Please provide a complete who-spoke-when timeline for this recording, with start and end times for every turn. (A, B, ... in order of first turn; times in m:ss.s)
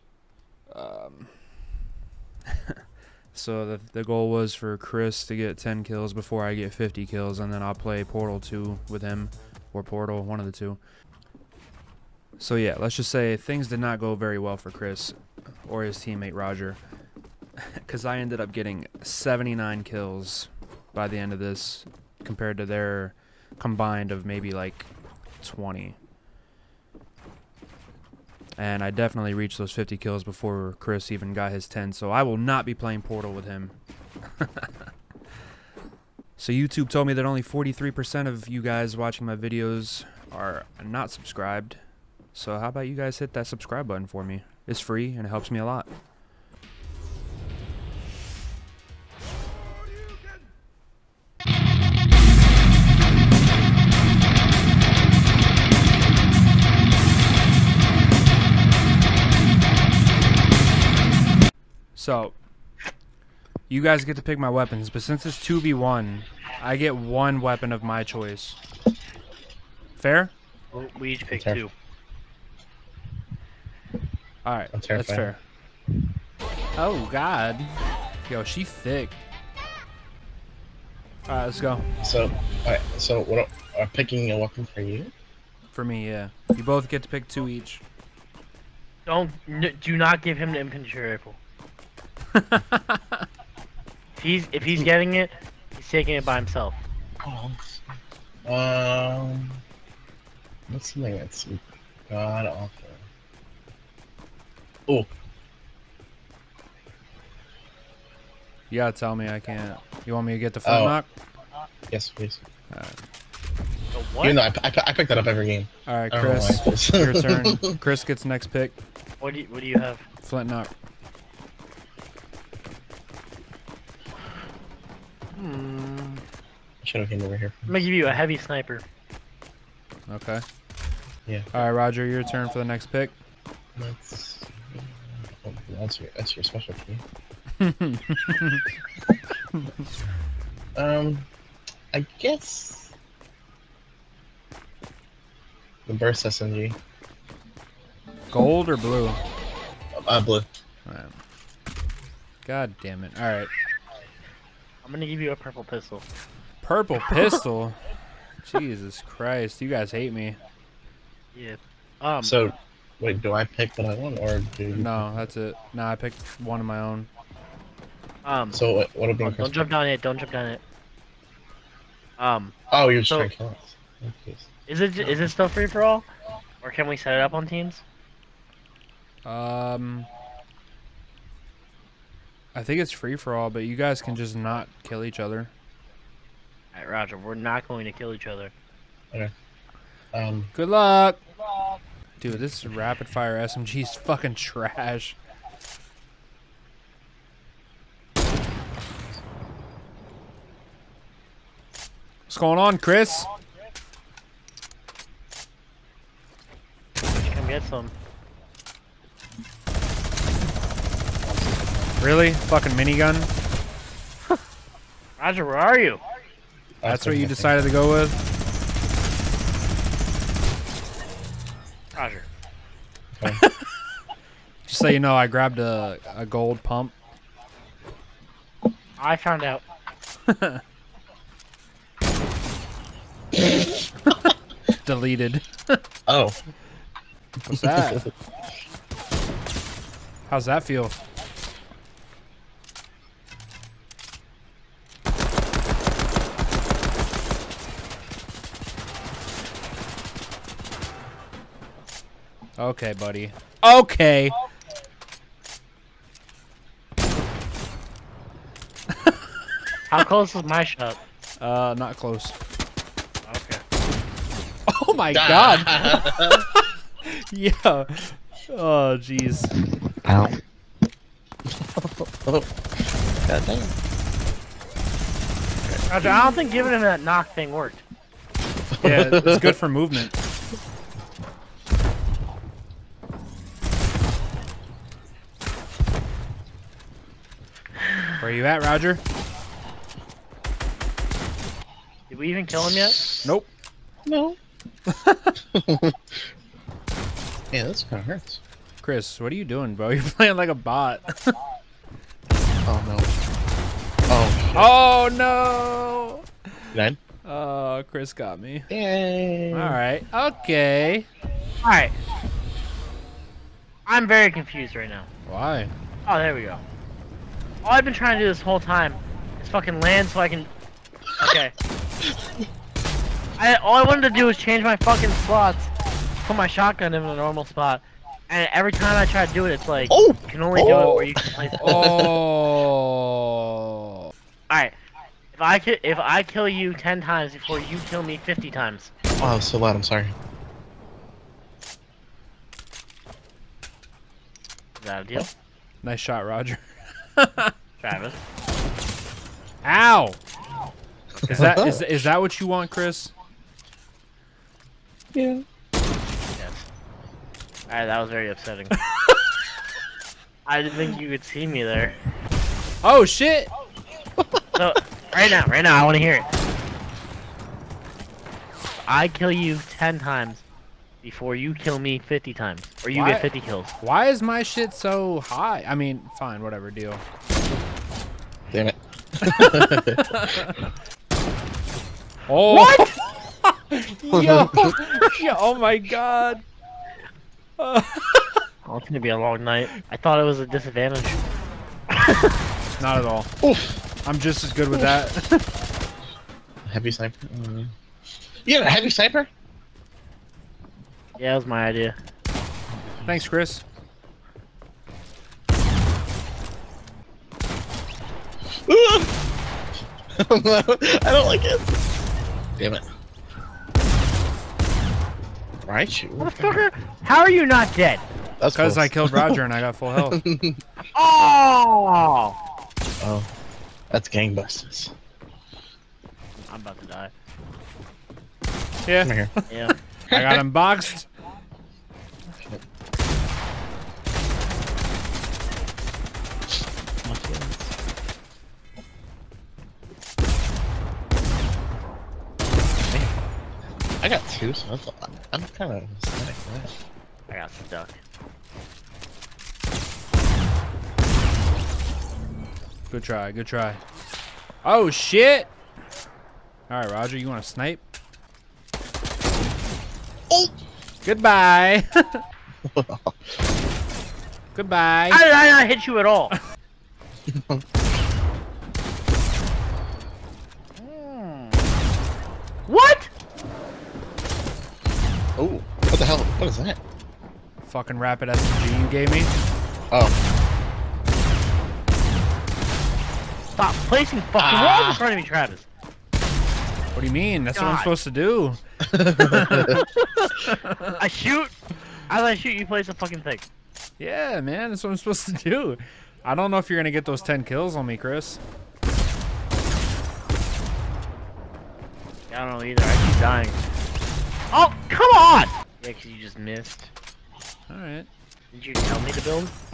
0:00.7-0:01.5 A
0:03.3-0:10.8 A
0:12.4-0:16.8 A
0:17.8-0:26.0 A
0:28.6-0:33.8 A
0:34.4-0:34.7 A
0:36.4-0:41.8 A
0:42.3-0:45.9 A
1:01.9-1:02.4 A
1:03.7-1:08.6 A
1:10.0-1:10.3 A
1:10.7-1:11.7 B
1:11.3-1:11.6 C
1:14.4-1:15.4 A
1:14.7-1:15.3 C
1:16.8-1:17.7 A
1:18.3-1:19.2 A
1:21.3-1:21.8 A
1:22.0-1:25.1 C
1:25.7-1:27.8 A
1:29.1-1:31.4 B
1:32.3-1:33.2 A
1:34.2-1:36.8 B
1:37.2-1:37.7 C
1:38.4-1:39.6 C
1:40.7-1:43.0 C
1:48.7-1:51.1 A
1:50.6-1:51.0 C
1:51.9-1:52.4 C
1:52.7-1:53.0 A
1:53.9-1:54.4 B
1:54.2-1:57.7 C
1:55.9-1:58.8 A
1:59.2-2:00.0 B
2:00.2-2:00.7 A
2:05.4-2:06.2 B
2:06.8-2:07.9 C
2:07.7-2:08.8 B
2:10.1-2:10.4 A
2:11.5-2:13.1 A
2:13.8-2:17.0 C
2:17.6-2:18.6 A
2:19.5-2:19.8 A
2:20.8-2:21.3 C
2:21.9-2:22.9 C
2:25.9-2:26.8 C
2:28.3-2:29.2 A
2:29.9-2:30.5 C
2:30.8-2:31.1 A
2:32.4-2:33.5 A
2:34.8-2:36.0 B
2:36.6-2:37.8 A
2:38.4-2:40.4 A
2:41.3-2:42.3 B
2:42.2-2:45.2 C
2:44.7-2:47.1 A
2:48.2-2:48.6 B
2:48.5-2:49.5 C
2:49.2-2:50.6 B
2:52.2-2:52.5 B
2:52.7-2:54.5 C
2:54.7-2:56.1 B
2:56.6-2:57.8 B
2:59.2-3:00.1 A
3:02.5-3:05.5 A
3:06.7-3:08.5 B
3:10.1-3:10.5 C
3:10.5-3:11.2 A
3:12.2-3:15.2 A
3:22.3-3:23.2 A
3:27.2-3:27.9 B
3:31.2-3:31.8 C
3:32.0-3:33.3 A
3:35.2-3:36.0 B
3:36.8-3:37.5 C
3:36.8-3:38.2 A
3:42.0-3:42.3 B
3:43.1-3:43.4 C
3:43.2-3:43.5 A
3:44.6-3:46.9 A
3:49.0-3:49.6 B
3:50.3-3:50.6 A
3:54.8-3:55.8 A
3:56.1-3:56.4 C
3:57.5-3:58.1 A
3:57.5-3:58.1 C
4:00.3-4:01.0 A
4:12.6-4:14.3 A
4:19.9-4:21.0 B
4:21.4-4:22.4 A
4:23.3-4:23.6 B
4:24.7-4:29.5 A
4:25.1-4:26.4 C
4:30.0-4:30.4 C
4:31.7-4:32.5 C
4:33.2-4:33.8 C
4:35.6-4:36.0 C
4:35.9-4:37.8 B
4:38.8-4:39.6 C
4:38.8-4:40.2 A
4:48.2-4:49.0 A
4:52.1-4:53.0 B
4:53.2-4:53.5 A
4:54.0-4:54.4 C
4:54.9-4:55.4 A
4:55.5-4:56.0 C
4:57.5-4:58.4 C
4:58.8-5:01.3 A
5:02.6-5:03.1 C
5:04.1-5:04.7 C
5:04.5-5:06.2 A
5:06.7-5:07.0 C
5:07.2-5:08.7 A
5:08.7-5:09.8 C
5:09.5-5:11.1 A
5:11.6-5:12.0 B
5:13.9-5:15.1 B
5:15.2-5:15.7 A
5:16.1-5:16.6 B
5:17.6-5:20.5 B
5:21.2-5:21.5 B
5:23.4-5:25.7 B
5:26.2-5:32.0 B
5:29.9-5:32.2 C
5:30.6-5:34.1 A
5:34.5-5:34.7 B
5:35.3-5:39.1 B
5:39.2-5:40.1 C
5:44.8-5:45.3 B
5:45.8-5:47.5 A
5:47.8-5:48.2 B
5:49.6-5:50.2 A
5:51.2-5:51.5 B
5:51.3-5:51.8 C
5:51.3-5:53.1 A
5:55.1-5:55.4 C
5:56.4-5:56.6 B
5:57.7-5:58.7 B
6:00.4-6:02.0 B
6:02.8-6:03.5 A
6:04.2-6:04.6 C
6:04.5-6:06.3 B
6:08.9-6:10.4 B
6:11.0-6:13.8 B
6:12.9-6:13.3 A
6:13.8-6:17.0 A
6:18.5-6:20.5 C
6:19.2-6:20.6 A
6:22.3-6:22.9 A
6:22.5-6:23.0 B
6:23.4-6:26.4 A
6:24.1-6:24.8 C
6:27.6-6:28.4 A
6:28.6-6:31.2 B
6:31.9-6:32.3 B
6:32.8-6:33.3 A
6:33.4-6:33.8 C
6:34.0-6:35.4 A
6:36.6-6:37.7 C
6:38.4-6:39.3 C
6:41.2-6:42.0 B
6:42.8-6:43.2 C
6:43.0-6:43.6 A
6:48.7-6:49.1 C
6:50.2-6:51.7 C
6:52.6-6:52.9 C
6:55.6-6:56.6 C
6:56.2-6:58.0 B
6:58.4-6:59.4 C
6:58.5-7:00.2 A
7:00.1-7:00.6 C
7:00.9-7:02.3 B
7:03.0-7:03.3 C
7:03.9-7:04.9 C
7:06.5-7:07.1 B
7:08.8-7:09.5 A
7:09.0-7:09.3 C
7:09.5-7:09.7 B
7:10.1-7:11.1 A
7:10.1-7:10.4 C
7:12.3-7:12.6 C
7:17.0-7:17.7 C
7:24.0-7:26.7 C
7:27.3-7:28.0 B
7:32.9-7:33.8 A
7:34.6-7:35.5 A
7:36.7-7:37.8 A
7:41.0-7:42.2 A
7:42.6-7:43.2 C
7:44.5-7:45.2 A
7:45.1-7:46.3 B
7:47.3-7:47.6 C
7:50.8-7:51.7 B
7:52.7-7:53.1 B
7:55.4-7:56.8 C
7:57.6-7:59.3 A
8:03.6-8:05.7 B
8:04.4-8:05.0 C
8:06.9-8:08.6 A
8:07.5-8:07.9 B
8:08.8-8:09.8 C
8:09.2-8:09.9 A
8:09.5-8:11.5 B
8:10.4-8:11.0 A
8:12.1-8:13.4 B
8:14.0-8:18.4 A
8:22.3-8:23.6 B
8:24.5-8:26.9 B
8:27.7-8:28.1 A
8:28.5-8:29.5 B